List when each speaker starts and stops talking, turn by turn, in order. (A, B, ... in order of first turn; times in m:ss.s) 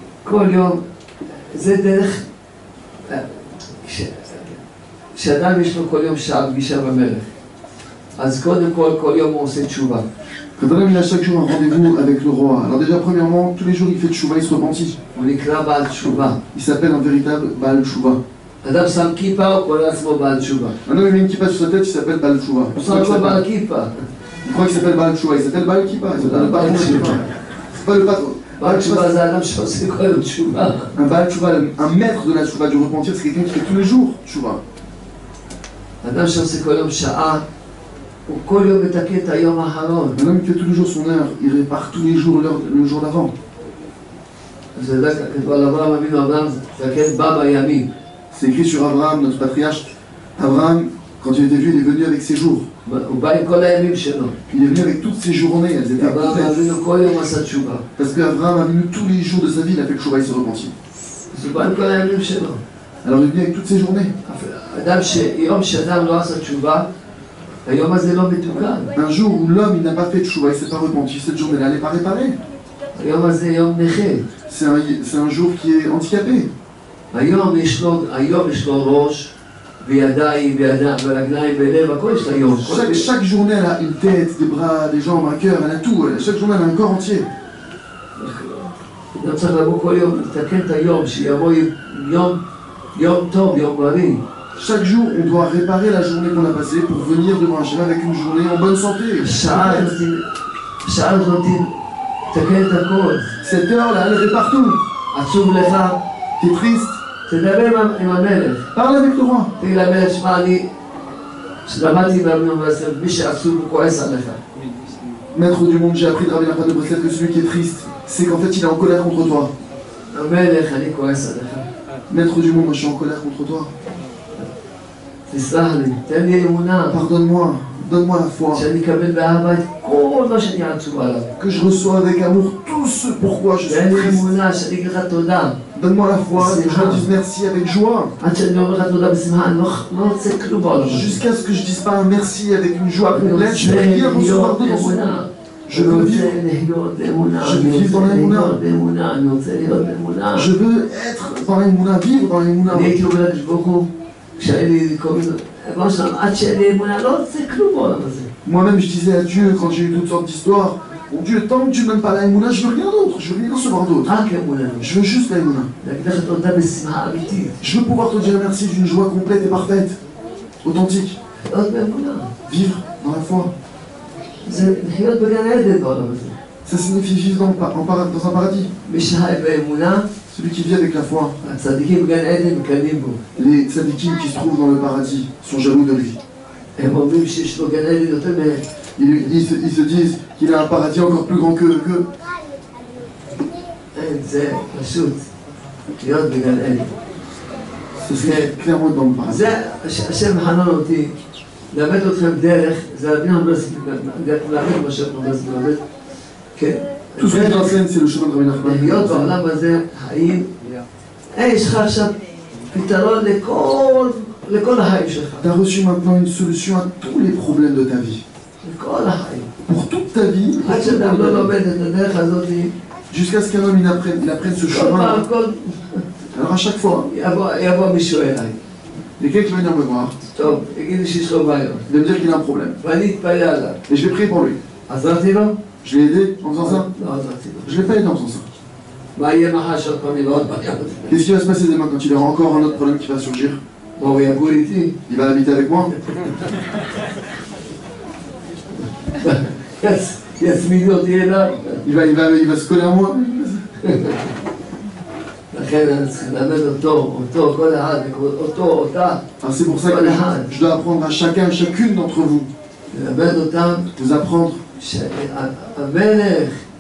0:00.2-0:00.8 A
0:01.5-0:02.2 A
0:03.8-0:04.5 A
0:05.2-0:07.2 A
0:08.2-0:10.0 A
0:10.6-0:15.0 B
0:15.1-0:16.4 A
0:16.5-0:18.2 B
0:18.6-0:20.8 A
0:20.8-0:23.4 B
0:22.8-0:23.9 A
0:24.4-0:29.2 B
0:26.2-0:27.2 A
0:28.6-0:30.9 A
0:31.0-0:34.6 B
0:36.0-0:37.4 A
0:38.3-0:40.2 A
0:40.2-0:43.3 B
0:44.8-0:47.9 A
0:48.3-0:52.7 B
0:52.9-0:54.4 A
0:54.5-0:56.8 B
0:56.0-0:57.8 A
0:58.0-1:00.7 B
1:01.3-1:02.6 A
1:03.0-1:04.1 B
1:04.2-1:06.9 A
1:07.6-1:08.9 A
1:09.0-1:12.4 B
1:13.0-1:14.2 A
1:14.5-1:16.5 B
1:17.1-1:23.1 A
1:22.5-1:27.3 B
1:28.2-1:32.4 A
1:32.9-1:34.2 A
1:34.6-1:39.9 B
1:39.2-1:40.2 A
1:40.8-1:41.7 A
1:42.3-1:43.4 A
1:43.4-1:44.8 B
1:45.1-1:46.0 A
1:46.4-1:47.0 B
1:47.3-1:48.7 A
1:48.7-1:49.5 B
1:49.6-1:50.7 A
1:51.6-1:54.4 A
1:55.3-1:59.5 B
2:00.1-2:01.7 A
2:02.1-2:03.7 B
2:05.3-2:07.0 A
2:06.9-2:08.7 B
2:08.5-2:11.3 A
2:11.4-2:14.3 B
2:13.7-2:15.6 A
2:15.7-2:18.1 B
2:16.4-2:17.0 A
2:18.2-2:21.2 A
2:20.8-2:26.3 B
2:23.1-2:30.5 A
2:27.4-2:28.6 B
2:30.3-2:32.9 B
2:32.7-2:38.3 A
2:38.4-2:44.1 B
2:44.0-2:44.9 A
2:44.8-2:45.7 B
2:45.8-2:47.6 A
2:47.6-2:50.0 B
2:50.6-2:51.2 B
2:51.4-2:52.3 A
2:52.5-2:53.5 B
2:54.4-2:56.4 A
2:56.6-2:58.7 B
2:58.8-3:00.1 A
3:00.3-3:01.4 B
3:01.4-3:03.2 A
3:03.4-3:06.2 B
3:06.8-3:08.6 A
3:09.0-3:12.1 B
3:13.9-3:15.3 A
3:16.0-3:16.9 A
3:18.0-3:19.5 B
3:18.2-3:18.5 A
3:19.3-3:21.2 A
3:21.7-3:25.8 A
3:26.6-3:27.8 A
3:27.2-3:29.4 B
3:28.6-3:30.6 A
3:31.4-3:32.1 A
3:32.7-3:35.5 A
3:35.4-3:38.2 B
3:38.6-3:39.5 A
3:39.7-3:41.5 B
3:40.6-3:42.7 A
3:43.1-3:45.2 B
3:44.6-3:46.0 A
3:46.3-3:47.1 B
3:46.9-3:48.6 A
3:49.2-3:50.2 B
3:50.3-3:51.8 A
3:51.9-3:52.8 B
3:52.8-3:53.8 A
3:53.9-3:54.6 B
3:54.9-3:55.6 A
3:55.8-3:56.9 B
3:56.6-3:57.9 A
3:57.6-3:58.4 B
3:59.2-4:01.2 A
4:01.1-4:03.6 B
4:04.0-4:05.0 A
4:05.1-4:05.9 B
4:09.1-4:11.8 A
4:11.8-4:13.6 B
4:13.8-4:14.3 A
4:15.5-4:19.2 A
4:19.4-4:22.5 B
4:19.8-4:20.5 A
4:22.9-4:23.9 A
4:23.9-4:24.6 B
4:24.8-4:26.6 A